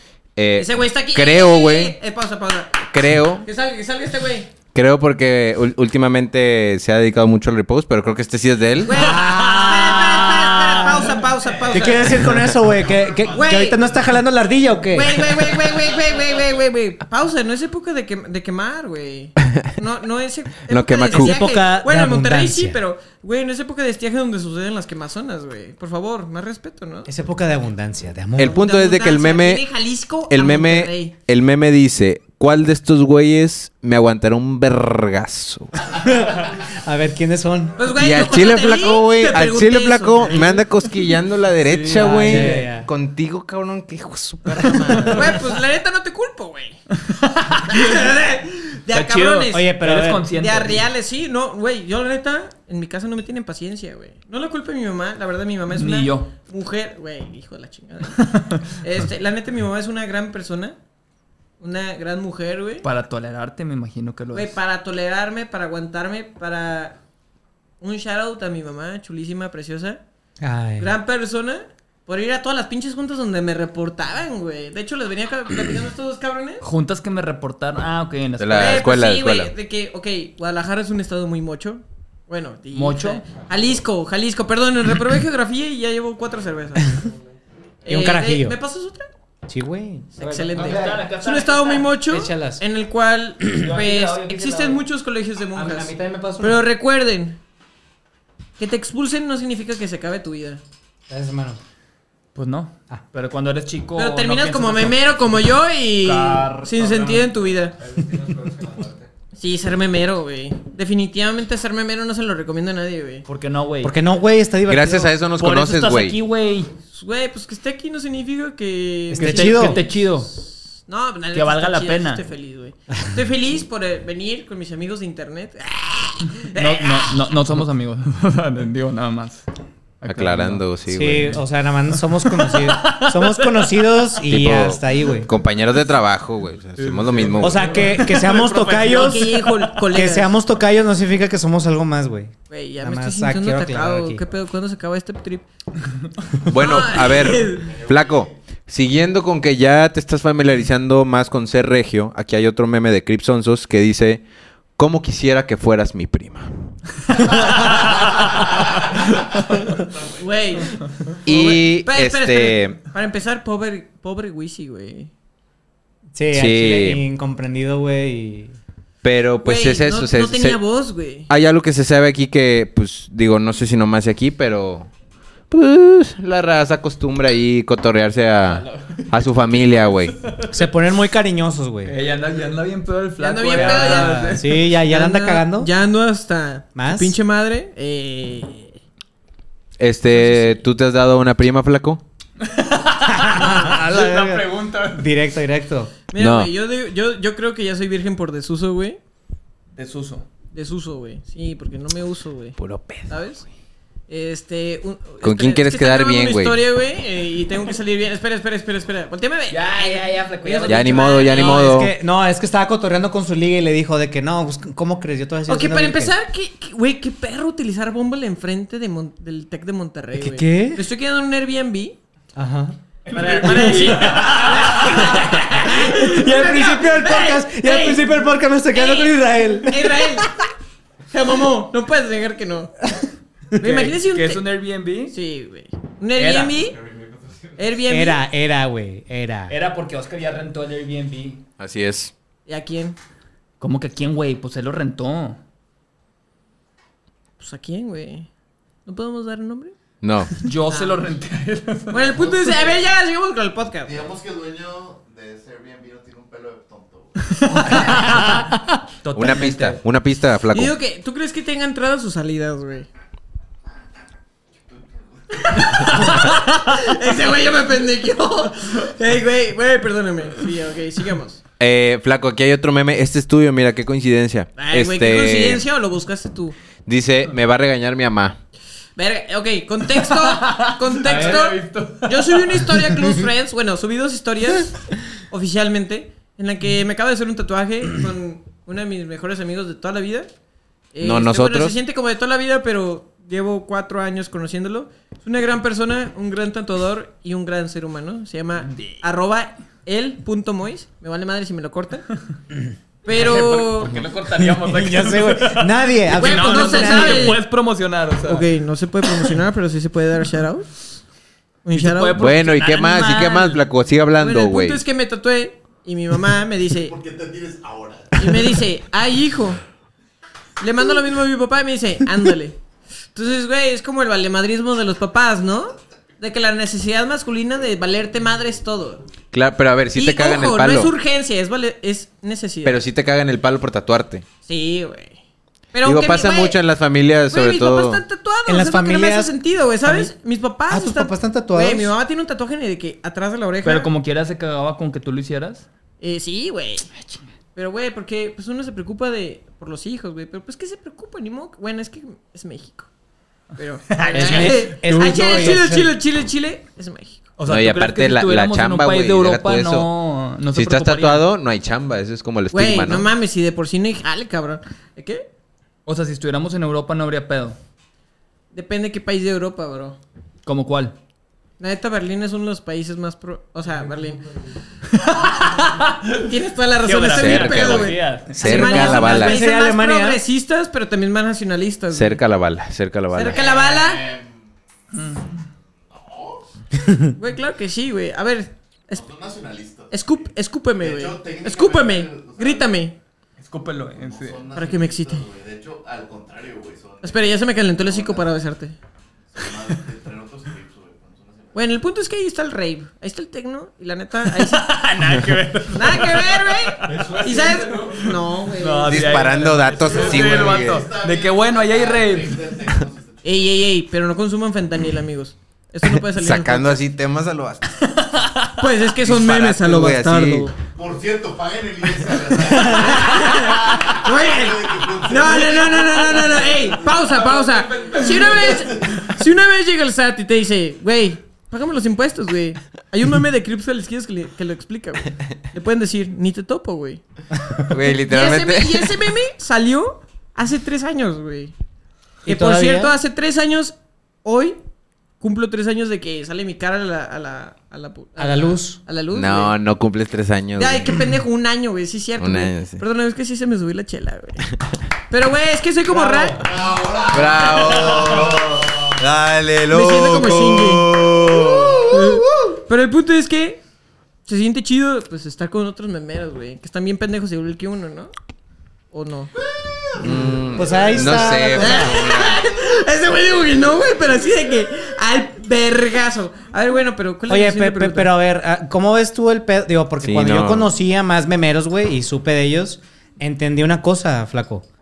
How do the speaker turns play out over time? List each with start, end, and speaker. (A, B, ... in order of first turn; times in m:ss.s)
0:00.4-0:02.0 A
0:00.6-0:02.9 B
0:02.9-0:03.5 A
0:03.4-0:04.5 B
0:04.7-0:09.1 A
0:08.8-0:12.3 B
0:08.9-0:15.2 C
0:12.8-0:13.5 D
0:13.3-0:13.8 B
0:14.9-0:27.1 B
0:15.5-0:16.4 D
0:20.7-0:21.4 A
0:21.1-0:22.8 C
0:27.1-0:28.6 C
0:28.4-0:29.6 A
0:28.5-0:31.1 B
0:30.3-0:35.7 A
0:36.0-0:37.8 C
0:37.8-0:40.6 B
0:38.0-0:45.2 A
0:41.6-0:42.6 E
0:42.0-0:42.9 C
0:44.7-0:45.2 E
0:45.1-0:46.8 B
0:47.0-0:48.1 E
0:47.7-0:49.7 B
0:48.9-0:50.8 E
0:49.5-0:50.3 C
0:50.3-1:00.8 B
0:55.7-0:56.3 E
0:58.2-0:58.6 E
1:01.6-1:02.9 B
1:02.8-1:04.6 E
1:04.3-1:07.0 B
1:07.8-1:10.0 B
1:10.4-1:10.9 C
1:10.8-1:16.6 B
1:16.6-1:18.8 E
1:18.4-1:19.5 A
1:18.5-1:27.0 B
1:22.7-1:23.3 E
1:27.8-1:29.1 B
1:27.9-1:28.6 C
1:29.5-1:31.0 C
1:30.1-1:37.4 B
1:30.6-1:31.9 E
1:32.1-1:32.6 C
1:33.5-1:34.8 E
1:35.5-1:36.6 C
1:38.6-1:40.6 B
1:41.1-1:41.6 C
1:42.4-1:45.4 E
1:44.0-1:47.8 B
1:46.0-1:47.1 E
1:47.0-1:49.1 F
1:49.4-1:53.3 B
1:53.3-1:54.0 E
1:53.8-1:55.1 C
1:54.7-1:56.2 A
1:55.4-1:56.8 E
1:56.9-2:07.2 B
1:59.1-1:59.8 C
1:59.2-2:00.3 E
2:01.3-2:02.2 E
2:06.4-2:09.5 E
2:10.0-2:10.6 E
2:10.0-2:11.4 A
2:10.9-2:15.3 C
2:12.2-2:13.5 E
2:14.3-2:17.7 A
2:16.8-2:19.8 E
2:17.0-2:17.6 F
2:17.4-2:24.2 C
2:18.9-2:20.3 B
2:22.5-2:25.4 B
2:26.5-2:34.2 A
2:26.5-2:27.7 B
2:27.4-2:28.4 D
2:34.8-2:36.7 A
2:38.2-2:40.3 D
2:40.2-2:45.1 B
2:41.2-2:42.8 A
2:46.2-2:48.6 C
2:46.3-2:47.0 A
2:49.0-2:50.6 A
2:49.4-2:51.3 B
2:51.3-2:54.9 A
2:55.5-3:00.2 A
2:58.5-2:59.1 E
3:00.5-3:02.0 C
3:01.9-3:04.7 E
3:03.2-3:08.8 B
3:03.5-3:05.7 C
3:06.8-3:07.2 C
3:09.8-3:12.0 A
3:12.4-3:15.1 E
3:13.0-3:15.9 C
3:16.1-3:19.0 B
3:16.2-3:16.5 A
3:19.8-3:20.2 E
3:20.5-3:22.6 B
3:22.6-3:23.1 A
3:23.1-3:23.4 B
3:24.1-3:31.9 B
3:25.2-3:26.6 A
3:29.5-3:31.6 E
3:30.7-3:31.9 A
3:31.4-3:36.1 C
3:35.5-3:42.0 B
3:40.1-3:40.8 C
3:42.4-3:42.8 C
3:43.1-3:45.4 E
3:43.1-3:48.1 B
3:43.5-3:44.0 C
3:45.7-3:50.3 C
3:48.7-3:50.3 B
3:51.1-3:52.7 B
3:53.6-3:54.4 B
3:53.6-3:55.2 E
3:55.1-3:56.8 B
3:56.2-3:56.6 E
3:56.6-3:57.7 F
3:57.6-3:58.2 B
3:57.9-3:59.6 C
3:59.5-4:01.4 E
4:01.6-4:02.1 A
4:02.5-4:03.0 B
4:03.6-4:05.4 E
4:07.4-4:08.3 B
4:08.9-4:09.7 B
4:10.0-4:10.3 A
4:10.4-4:12.6 E
4:10.7-4:11.0 B
4:11.9-4:14.1 B
4:13.8-4:18.4 D
4:17.7-4:18.5 E
4:19.0-4:19.8 E
4:19.1-4:20.7 A
4:20.5-4:22.9 B
4:24.7-4:26.2 D
4:25.4-4:31.4 B
4:31.6-4:35.6 A
4:34.6-4:36.6 B
4:36.9-4:38.4 A
4:39.0-4:50.3 B
4:40.0-4:42.9 E
4:41.0-4:41.4 C
4:50.9-5:02.1 B
4:51.0-4:51.8 A
4:58.6-4:59.0 E
5:03.0-5:04.0 B
5:03.1-5:08.5 E
5:04.6-5:07.4 C
5:06.2-5:07.4 B
5:08.2-5:11.0 B
5:09.0-5:09.4 E
5:11.6-5:12.2 B
5:11.7-5:13.6 E
5:12.2-5:14.8 A
5:14.2-5:17.0 B
5:16.8-5:18.6 D
5:18.2-5:19.6 B
5:20.6-5:22.6 B
5:23.1-5:29.0 B
5:29.3-5:30.9 A
5:29.9-5:32.8 B
5:32.6-5:34.2 A
5:34.4-5:35.2 B
5:35.7-5:36.6 B
5:35.8-5:38.0 A
5:37.3-5:43.9 B
5:38.5-5:39.3 C
5:39.8-5:40.1 C
5:40.7-5:41.9 C
5:43.6-5:45.7 E
5:46.0-5:46.9 B
5:47.6-5:52.9 B
5:53.6-5:57.3 B
5:53.9-5:55.7 E
5:54.1-5:55.9 C
5:57.4-6:01.3 E
5:57.5-5:59.9 A
6:00.5-6:03.1 A
6:02.5-6:05.3 B
6:05.9-6:07.6 E
6:08.5-6:10.0 B
6:10.4-6:11.0 E
6:11.6-6:14.3 B
6:14.9-6:16.2 E
6:16.2-6:22.2 B
6:16.8-6:19.1 E
6:17.1-6:19.4 A
6:18.4-6:20.2 C
6:21.9-6:23.4 A
6:23.1-6:24.1 B
6:23.3-6:24.5 D
6:24.9-6:25.3 E
6:25.9-6:26.4 D
6:27.2-6:29.0 B
6:28.9-6:32.8 D
6:29.9-6:33.0 B
6:33.4-6:34.4 E
6:33.9-6:38.3 D
6:34.5-6:35.2 B
6:37.0-6:38.8 B
6:39.3-6:41.8 D
6:41.5-6:44.7 B
6:44.3-6:52.5 E
6:45.7-6:49.1 B
6:46.9-6:48.1 F
6:48.9-6:50.9 A
6:49.8-6:53.6 D
6:53.2-6:56.8 B
6:56.1-6:57.8 A
6:58.0-6:58.6 E
6:58.6-7:00.6 B
6:59.0-7:00.5 A
7:00.7-7:09.1 D
7:02.6-7:17.0 B
7:07.2-7:08.6 F
7:17.7-7:19.0 A
7:18.0-7:21.5 B
7:22.3-7:23.0 C
7:22.3-7:24.6 B
7:25.2-7:29.5 B
7:28.2-7:28.8 C
7:29.1-7:31.0 A
7:30.6-7:34.5 B
7:32.2-7:32.8 A
7:35.1-7:36.5 B
7:36.3-7:39.0 D
7:37.1-7:42.2 A
7:39.7-7:41.0 B
7:41.9-7:43.6 B
7:44.3-7:48.1 B
7:48.9-7:49.3 B
7:49.7-7:54.4 D
7:50.0-7:52.5 A
7:50.5-7:52.0 C
7:51.6-7:58.1 B
7:57.3-8:04.6 C
8:00.0-8:00.7 A